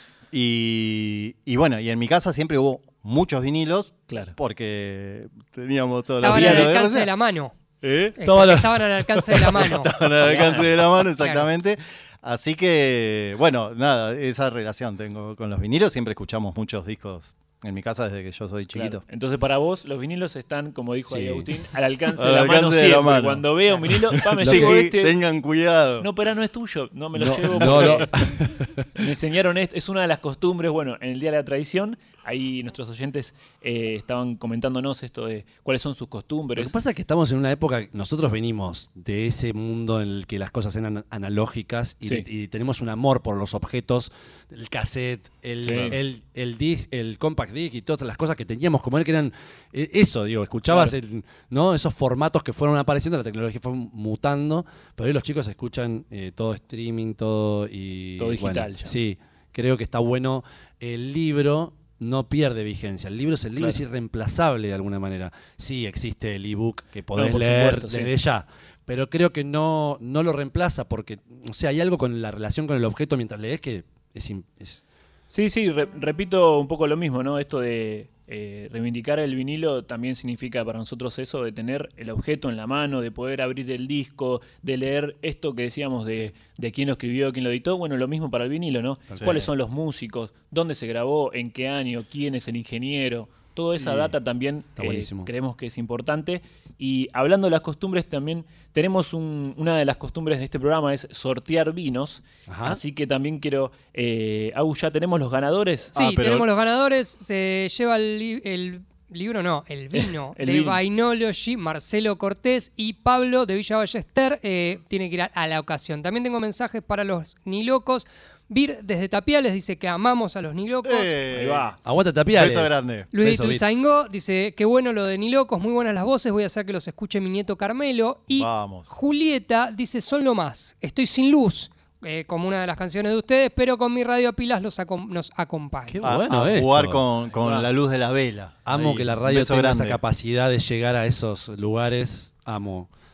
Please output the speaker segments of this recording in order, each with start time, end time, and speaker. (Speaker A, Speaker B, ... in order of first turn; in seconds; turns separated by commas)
Speaker A: 0.3-7.1, Speaker B: 4.1-4.4, Speaker C: 6.2-7.5, Speaker B: 6.2-6.7, Speaker A: 7.8-19.0, Speaker C: 8.2-9.9, Speaker B: 10.2-10.7, Speaker C: 11.2-11.5, Speaker B: 18.7-25.1, Speaker D: 21.1-21.4, Speaker A: 22.2-26.1, Speaker D: 24.4-24.8, Speaker B: 26.0-28.1, Speaker A: 27.2-28.3, Speaker D: 27.2-29.0, Speaker B: 28.9-36.7, Speaker D: 36.6-74.8, Speaker B: 45.6-46.0, Speaker B: 50.7-51.0, Speaker B: 58.2-59.0, Speaker B: 67.2-68.1, Speaker B: 75.3-106.0, Speaker D: 89.1-89.5, Speaker A: 93.8-94.1, Speaker D: 94.8-95.3, Speaker D: 102.5-102.8, Speaker C: 106.0-121.2, Speaker A: 106.0-106.5, Speaker B: 109.9-110.8, Speaker A: 120.8-121.7, Speaker B: 121.3-121.8, Speaker D: 121.8-123.7, Speaker A: 122.3-123.1, Speaker C: 123.1-136.0, Speaker A: 128.3-128.9, Speaker D: 135.9-137.0, Speaker A: 136.0-140.0, Speaker B: 137.4-137.7, Speaker D: 138.7-142.9